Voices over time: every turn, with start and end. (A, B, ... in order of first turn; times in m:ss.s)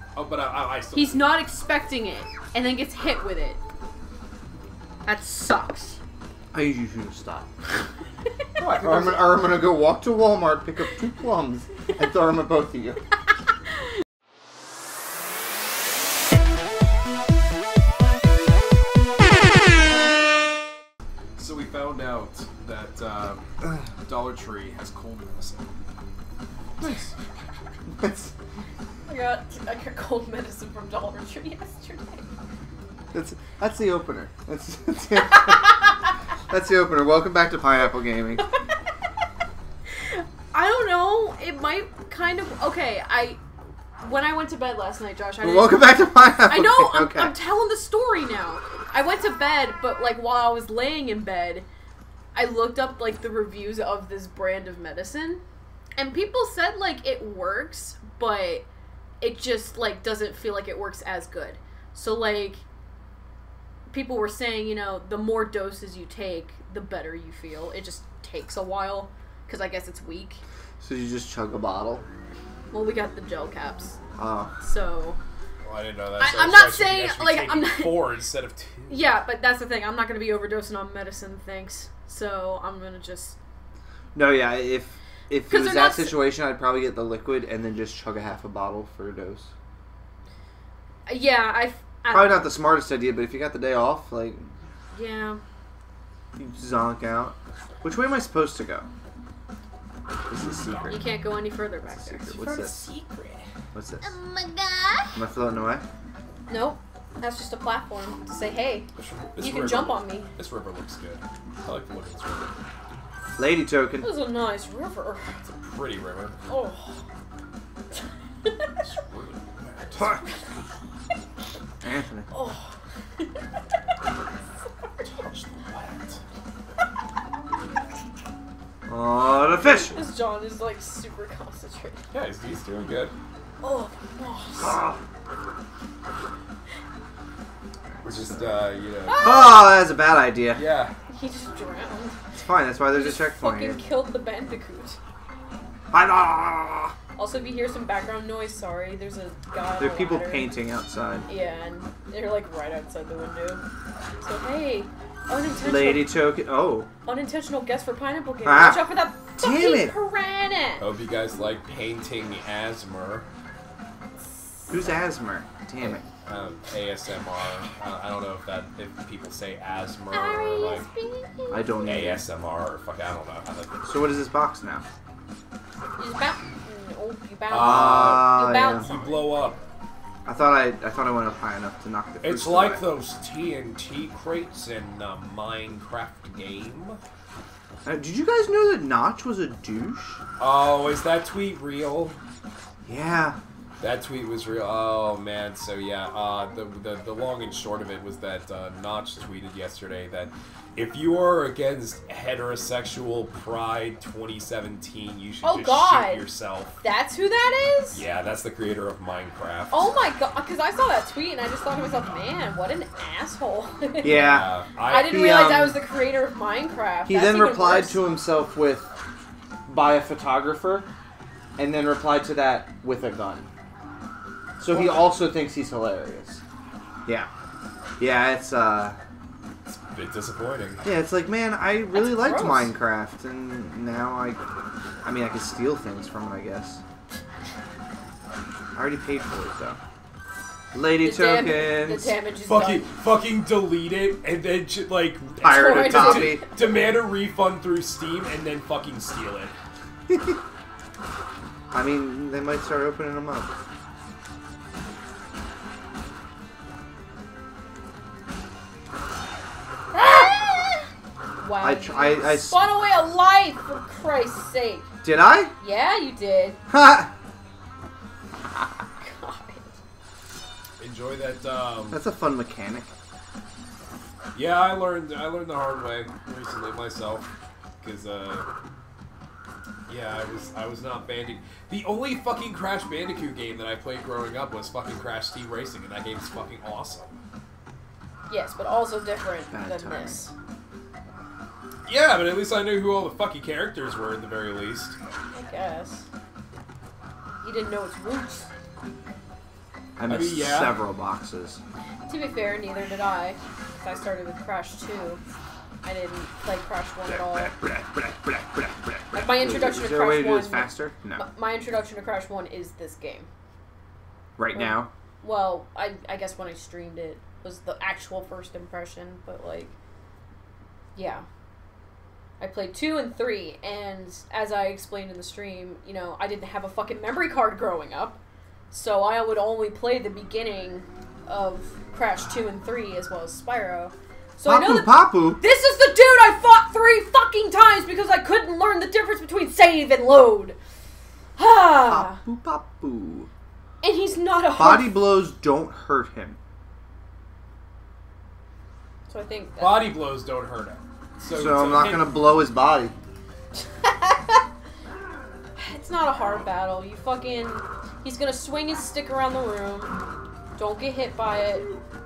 0:00.2-0:01.3 A
0:00.9-0:03.6 B
0:05.0-0:06.0 B
0:06.5-0:07.5 C
0:08.6-0:09.5 A
0:08.7-0:13.0 C
0:21.4-0:23.4 A
0:24.0-0:25.7 A
0:26.8-0:27.1 A
0:27.9-0:28.3 C
0:29.1-0:32.3 B
0:33.1-0:35.7 C
0:35.4-0:35.8 B
0:36.5-0:38.4 C
0:38.4-0:38.7 B
0:39.9-0:43.4 B
0:44.0-0:51.7 B
0:45.4-0:47.3 C
0:52.3-0:55.4 B
0:56.0-0:58.7 B
0:59.2-1:02.6 B
1:03.9-1:10.4 B
1:10.8-1:12.1 C
1:12.7-1:14.0 B
1:14.2-1:14.6 C
1:14.6-1:15.2 B
1:15.6-1:19.1 A
1:16.2-1:18.0 B
1:18.9-1:23.4 B
1:24.1-1:29.5 C
1:25.5-1:26.2 B
1:31.1-1:32.5 B
1:32.1-1:34.5 C
1:34.9-1:35.4 B
1:36.4-1:38.9 C
1:40.3-1:41.1 C
1:40.6-1:41.0 A
1:40.9-1:43.4 B
1:41.8-1:42.9 C
1:43.7-1:44.1 C
1:44.0-1:45.2 B
1:45.1-1:45.8 C
1:46.5-1:50.3 B
1:49.0-1:52.6 A
1:53.4-1:54.1 C
1:54.0-1:55.3 B
1:55.4-1:56.4 A
1:56.5-1:57.0 B
1:58.4-1:58.8 B
1:58.8-2:00.2 A
2:00.1-2:00.4 B
2:01.8-2:02.3 C
2:02.3-2:03.4 B
2:05.0-2:06.2 A
2:08.9-2:10.0 C
2:09.5-2:12.0 B
2:12.1-2:13.1 A
2:13.6-2:14.8 B
2:14.6-2:15.0 C
2:18.0-2:18.4 C
2:18.0-2:19.3 A
2:19.0-2:19.7 B
2:19.2-2:20.6 C
2:20.5-2:20.9 A
2:21.1-2:22.2 B
2:22.4-2:23.8 C
2:22.9-2:25.0 B
2:25.9-2:26.9 C
2:27.2-2:30.5 B
2:29.8-2:31.3 C
2:31.3-2:33.6 B
2:34.2-2:36.1 B
2:35.6-2:36.9 C
2:37.0-2:40.8 B
2:38.4-2:39.9 C
2:40.8-2:43.2 A
2:44.7-2:46.0 C
2:45.8-2:50.8 A
2:50.1-2:51.9 B
2:51.5-2:52.2 C
2:51.8-2:53.8 A
2:53.8-2:54.8 C
2:56.0-2:59.3 B
2:57.5-2:59.6 A
2:57.5-2:58.9 C
3:00.2-3:02.8 C
3:02.2-3:07.0 A
3:07.8-3:10.2 C
3:10.4-3:12.2 A
3:12.8-3:13.4 C
3:13.8-3:26.8 A
3:25.4-3:26.3 B
3:26.8-3:28.0 B
3:27.9-3:29.9 A
3:29.7-3:38.0 B
3:34.0-3:34.5 C
3:34.0-3:35.1 A
3:35.1-3:35.8 C
3:37.1-3:38.9 C
3:39.7-3:40.9 C
3:41.6-3:43.5 C
3:44.6-3:46.4 C
3:44.7-3:45.1 B
3:48.0-3:49.0 C
3:49.7-3:50.8 A
3:50.8-3:54.4 C
3:51.9-3:52.7 B
3:55.0-3:56.8 C
3:58.8-3:59.8 C
4:00.7-4:02.1 C
4:01.0-4:02.9 B
4:02.4-4:09.5 A
4:05.4-4:06.5 C
4:05.4-4:06.5 B
4:10.1-4:10.4 C
4:11.7-4:13.5 C
4:19.9-4:20.8 B
4:21.4-4:24.9 B
4:21.6-4:22.6 C
4:25.0-4:25.6 C
4:25.6-4:26.6 B
4:26.7-4:27.1 C
4:29.0-4:29.7 B
4:30.8-4:32.0 A
4:31.9-4:32.9 C
4:34.4-4:37.3 A
4:37.8-4:38.5 A
4:39.9-4:47.1 A
4:48.3-4:50.3 B
4:49.5-4:50.2 C
4:51.9-4:55.0 A
4:55.3-4:56.1 B
4:57.4-4:58.5 B
5:00.0-5:01.6 C
5:00.1-5:00.8 A
5:02.1-5:05.2 B
5:05.8-5:07.6 B
5:07.2-5:11.2 C
5:09.1-5:13.3 B
5:14.4-5:14.9 C
5:14.5-5:19.7 B
5:20.9-5:21.2 B
5:22.4-5:28.2 B
5:28.7-5:40.6 B
5:34.5-5:35.4 C
5:41.4-5:42.2 B
5:41.8-5:43.3 C
5:43.8-5:45.0 B
5:44.6-5:46.4 C
5:49.1-5:49.9 B
5:49.6-5:52.2 A
5:51.3-5:52.9 C
5:53.8-5:54.4 B
5:55.6-6:00.0 B
6:00.6-6:01.7 B